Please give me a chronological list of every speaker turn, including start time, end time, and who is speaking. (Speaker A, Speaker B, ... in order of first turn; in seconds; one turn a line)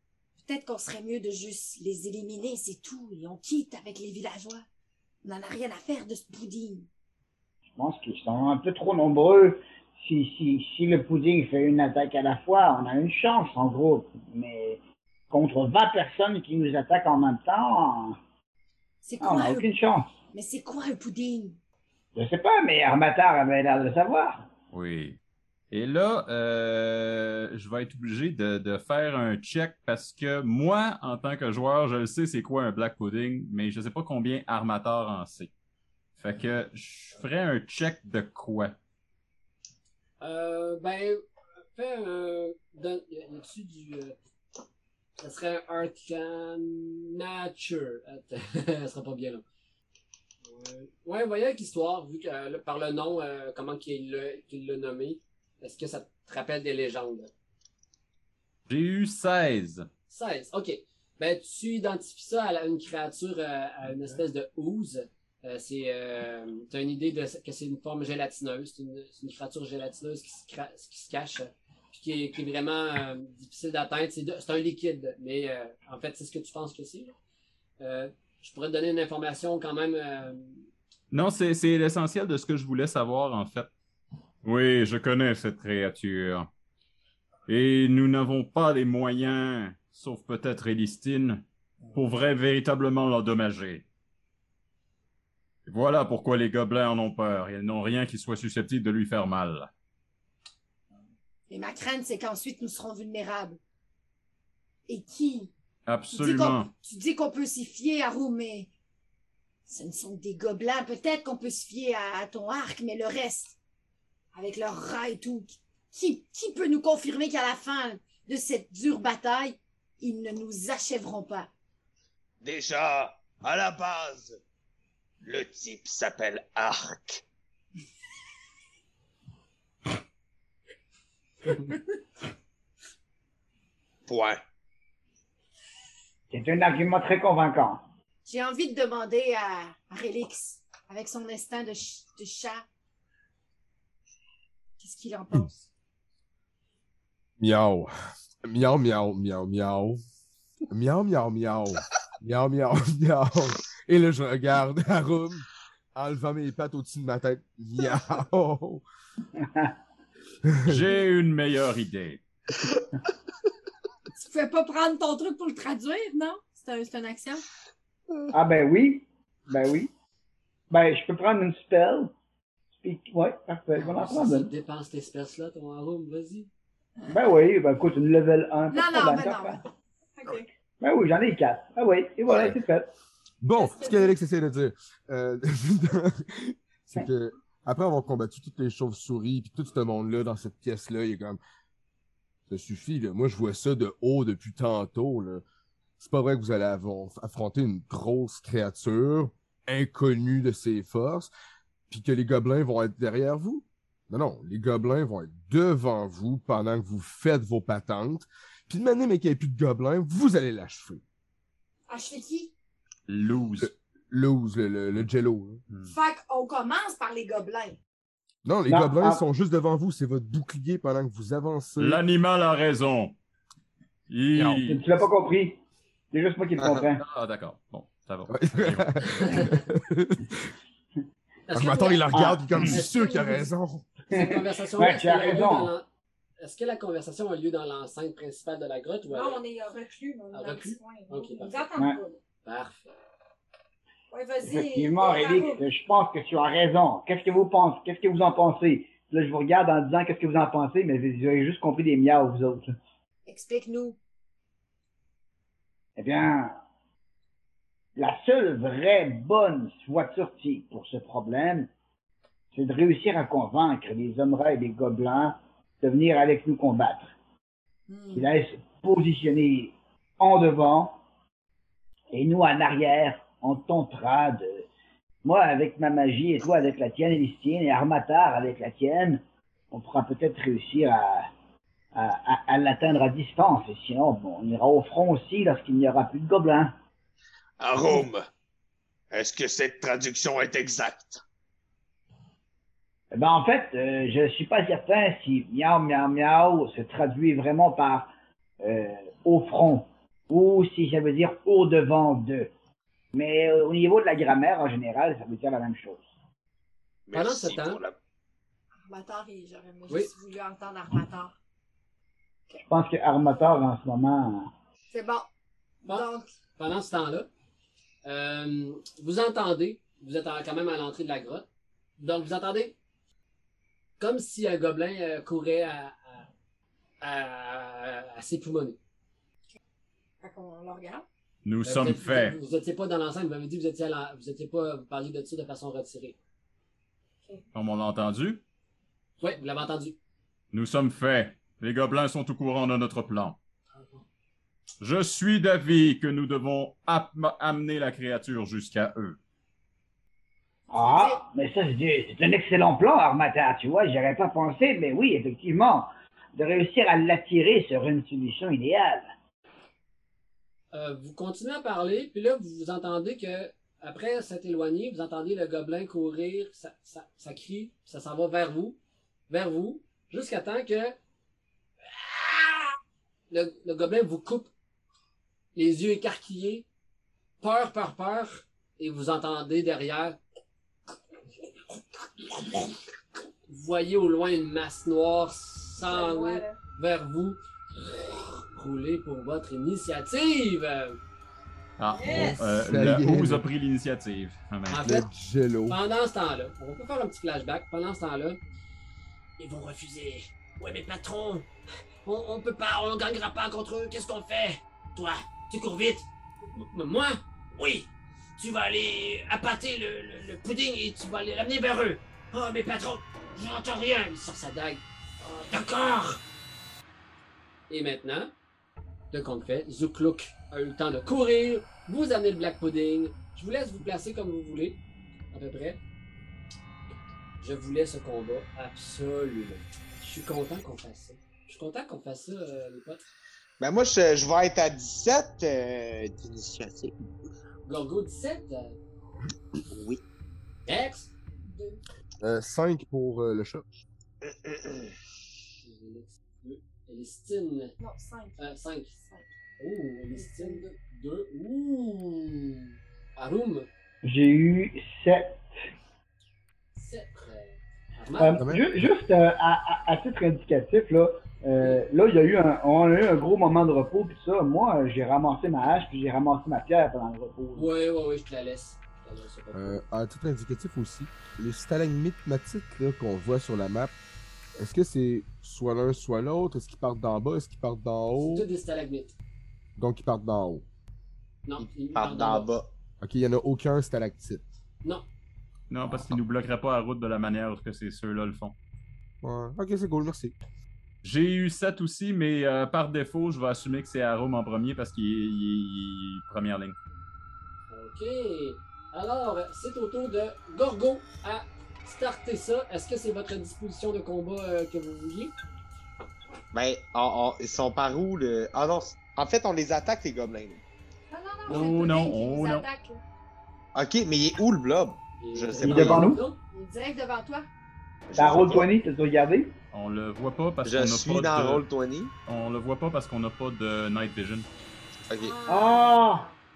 Speaker A: 0.4-4.7
Speaker A: 5.2-6.9
Speaker B: 7.7-14.8
Speaker B: 15.3-18.2
Speaker A: 19.0-19.7
Speaker B: 19.2-20.1
Speaker A: 20.3-21.6
Speaker B: 22.2-24.5
Speaker C: 24.7-25.2
Speaker C: 25.7-35.5
Speaker C: 36.2-38.8
Speaker D: 40.2-41.2
Speaker D: 41.8-44.2
Speaker D: 45.2-49.4
Speaker D: 50.5-57.3
Speaker C: 58.7-59.9
Speaker D: 60.1-77.1
Speaker D: 77.8-80.6
Speaker C: 81.1-83.7
Speaker C: 84.4-86.5
Speaker C: 87.5-93.8
Speaker C: 95.7-99.7
Speaker A: 101.5-103.6
Speaker A: 104.9-105.5
Speaker C: 105.9-106.7
Speaker A: 106.1-108.7
Speaker A: 109.7-113.6
Speaker A: 114.3-121.5
Speaker E: 122.4-124.4
Speaker E: 125.2-127.2
Speaker E: 134.1-134.4
Speaker B: 136.3-137.8
Speaker A: 138.3-142.7
Speaker A: 144.8-145.7
Speaker F: 147.4-147.9
Speaker F: 148.4-150.0
Speaker F: 150.7-158.8
Speaker B: 159.4-159.7
Speaker F: 160.4-160.8
Speaker C: 160.7-162.2
Speaker A: 164.1-167.4
Speaker B: 168.3-169.9
Speaker B: 170.7-172.2
Speaker B: 172.8-174.5
Speaker D: 173.7-176.5
Speaker B: 177.1-179.6
Speaker A: 178.7-179.7
Speaker A: 180.2-180.5
Speaker B: 180.8-182.9
Speaker F: 183.4-191.4
Speaker A: 183.6-184.2
Speaker F: 192.5-195.4
Speaker F: 196.0-201.3
Speaker F: 201.9-211.0
Speaker A: 211.9-212.5
Speaker C: 213.1-213.7
Speaker F: 213.6-215.6
Speaker A: 215.9-217.8
Speaker F: 218.4-222.0
Speaker B: 218.7-219.2
Speaker C: 221.8-223.2
Speaker C: 224.1-224.8
Speaker B: 224.3-225.6
Speaker B: 226.1-227.0
Speaker C: 227.0-229.4
Speaker F: 228.3-230.4
Speaker D: 229.0-229.5
Speaker D: 231.5-232.0
Speaker F: 231.5-233.9
Speaker B: 232.1-232.8
Speaker D: 232.7-233.5
Speaker B: 234.1-235.7
Speaker D: 234.1-235.9
Speaker D: 236.4-239.4
Speaker A: 239.1-242.2
Speaker D: 240.3-241.6
Speaker D: 242.4-242.9
Speaker A: 244.1-245.6
Speaker B: 244.4-252.8
Speaker A: 253.3-254.0
Speaker B: 256.0-256.6
Speaker B: 258.0-261.7
Speaker B: 262.5-267.1
Speaker A: 267.9-268.3
Speaker B: 268.1-271.0
Speaker B: 272.1-274.7
Speaker B: 275.2-281.3
Speaker B: 281.9-286.8
Speaker E: 287.6-288.3
Speaker E: 289.1-291.2
Speaker B: 293.1-302.5
Speaker B: 303.1-306.1
Speaker E: 307.1-307.9
Speaker D: 307.1-307.8
Speaker A: 308.9-311.3
Speaker B: 312.6-314.5
Speaker A: 314.9-315.3
Speaker A: 315.9-316.3
Speaker D: 316.6-317.3
Speaker D: 318.0-321.5
Speaker D: 322.0-322.8
Speaker D: 324.0-326.3
Speaker D: 327.0-328.8
Speaker A: 330.2-331.1
Speaker C: 331.4-332.4
Speaker D: 331.6-336.2
Speaker C: 337.5-338.4
Speaker D: 339.2-340.0
Speaker C: 340.5-343.4
Speaker C: 344.8-349.2
Speaker B: 350.7-359.1
Speaker A: 350.7-351.2
Speaker D: 360.7-368.8
Speaker D: 369.3-371.0
Speaker D: 371.9-372.8
Speaker D: 373.3-374.5
Speaker D: 375.6-376.7
Speaker D: 377.4-380.2
Speaker D: 382.4-382.7
Speaker D: 383.5-391.0
Speaker A: 385.8-386.6
Speaker C: 391.8-394.8
Speaker A: 391.9-392.4
Speaker F: 392.1-393.4
Speaker D: 394.7-395.1
Speaker F: 394.8-395.8
Speaker D: 395.7-398.4
Speaker D: 399.4-401.5
Speaker D: 402.1-416.2
Speaker D: 417.7-418.3
Speaker D: 419.1-424.8
Speaker D: 425.3-425.8
Speaker D: 427.4-433.0
Speaker G: 433.6-437.0
Speaker D: 437.7-438.8
Speaker G: 439.7-440.0
Speaker D: 440.7-441.1
Speaker A: 441.4-441.8
Speaker F: 442.2-443.7
Speaker D: 445.6-447.8
Speaker A: 447.8-448.4
Speaker D: 448.4-448.9
Speaker A: 448.9-449.3
Speaker D: 449.6-453.7
Speaker A: 450.1-450.7
Speaker B: 454.0-455.4
Speaker D: 456.8-458.4
Speaker B: 458.2-467.7
Speaker F: 458.4-458.8
Speaker D: 461.6-461.8
Speaker D: 467.6-469.8
Speaker F: 469.5-473.9
Speaker F: 474.6-478.5
Speaker D: 478.2-479.1
Speaker F: 479.8-480.6
Speaker D: 481.5-482.5
Speaker G: 481.9-482.7
Speaker F: 483.0-484.5
Speaker C: 485.7-488.6
Speaker F: 489.2-490.4
Speaker C: 491.0-496.8
Speaker D: 497.7-505.3
Speaker G: 506.5-510.6
Speaker A: 511.1-513.0
Speaker C: 511.5-512.7
Speaker G: 513.8-516.1
Speaker D: 515.2-516.4
Speaker B: 515.6-516.2
Speaker A: 516.5-517.5
Speaker G: 518.1-518.7
Speaker B: 518.2-519.5
Speaker C: 519.7-521.6
Speaker G: 520.6-522.1
Speaker C: 522.3-524.5
Speaker G: 525.1-525.4
Speaker A: 525.1-526.3
Speaker B: 525.5-526.3